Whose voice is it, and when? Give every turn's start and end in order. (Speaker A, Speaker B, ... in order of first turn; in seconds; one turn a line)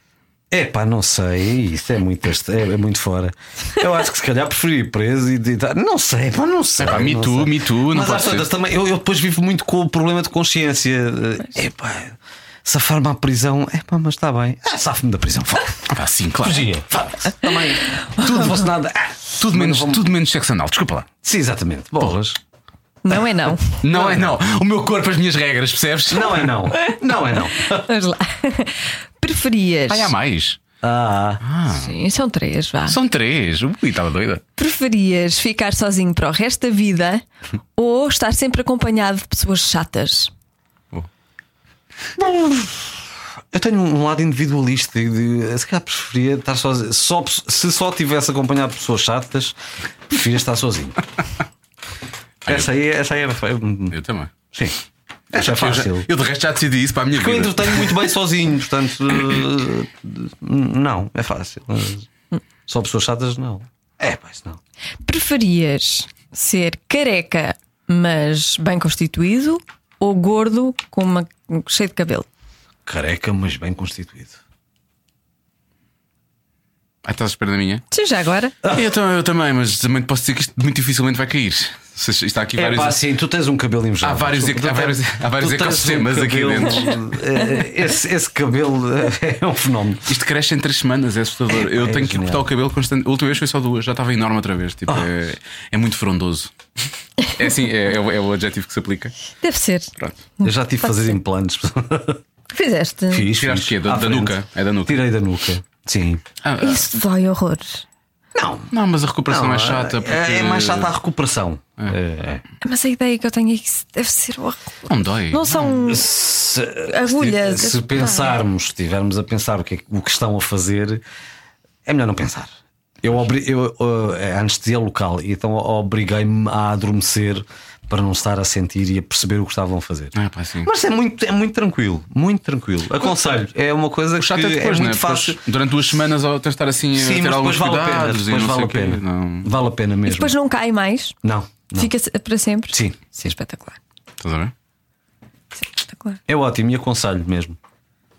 Speaker A: 0.5-20.1
Speaker B: 6.8-8.5
Speaker B: 15.9-17.1
Speaker C: 18.1-18.4
Speaker B: 18.2-18.6
Speaker B: 19.4-21.1
Speaker A: 21.2-22.4
Speaker C: 23.0-23.8
Speaker B: 23.8-26.7
Speaker A: 23.9-24.4
Speaker A: 26.1-27.9
Speaker C: 27.5-30.1
Speaker B: 29.9-30.6
Speaker A: 30.8-31.4
Speaker B: 31.4-31.9
Speaker C: 31.7-33.0
Speaker B: 32.9-34.4
Speaker C: 34.6-37.2
Speaker C: 37.8-40.3
Speaker A: 42.1-49.5
Speaker A: 50.1-51.0
Speaker A: 52.4-54.0
Speaker B: 53.9-54.3
Speaker A: 54.5-54.8
Speaker A: 55.3-56.1
Speaker B: 55.3-58.0
Speaker A: 57.1-62.1
Speaker A: 62.7-64.6
Speaker C: 65.0-72.3
Speaker A: 72.8-74.4
Speaker B: 77.0-77.8
Speaker C: 77.9-78.5
Speaker B: 78.7-83.0
Speaker A: 82.5-90.1
Speaker B: 84.0-87.0
Speaker B: 90.1-96.5
Speaker A: 91.6-92.5
Speaker B: 97.3-99.1
Speaker C: 99.4-101.2
Speaker A: 100.4-102.2
Speaker C: 102.5-103.3
Speaker A: 103.1-106.2
Speaker B: 103.3-105.0
Speaker B: 106.4-106.9
Speaker C: 106.6-107.8
Speaker A: 108.3-108.7
Speaker B: 108.7-110.9
Speaker A: 109.3-112.4
Speaker C: 112.6-116.1
Speaker B: 114.9-115.8
Speaker A: 115.8-121.0
Speaker C: 116.9-118.4
Speaker A: 121.8-122.5
Speaker A: 123.0-135.4
Speaker B: 130.1-130.7
Speaker B: 134.2-139.5
Speaker A: 136.9-140.3
Speaker C: 140.1-141.2
Speaker A: 141.2-141.9
Speaker C: 141.7-143.8
Speaker A: 142.7-143.1
Speaker B: 144.2-144.5
Speaker C: 145.6-146.2
Speaker A: 146.3-147.6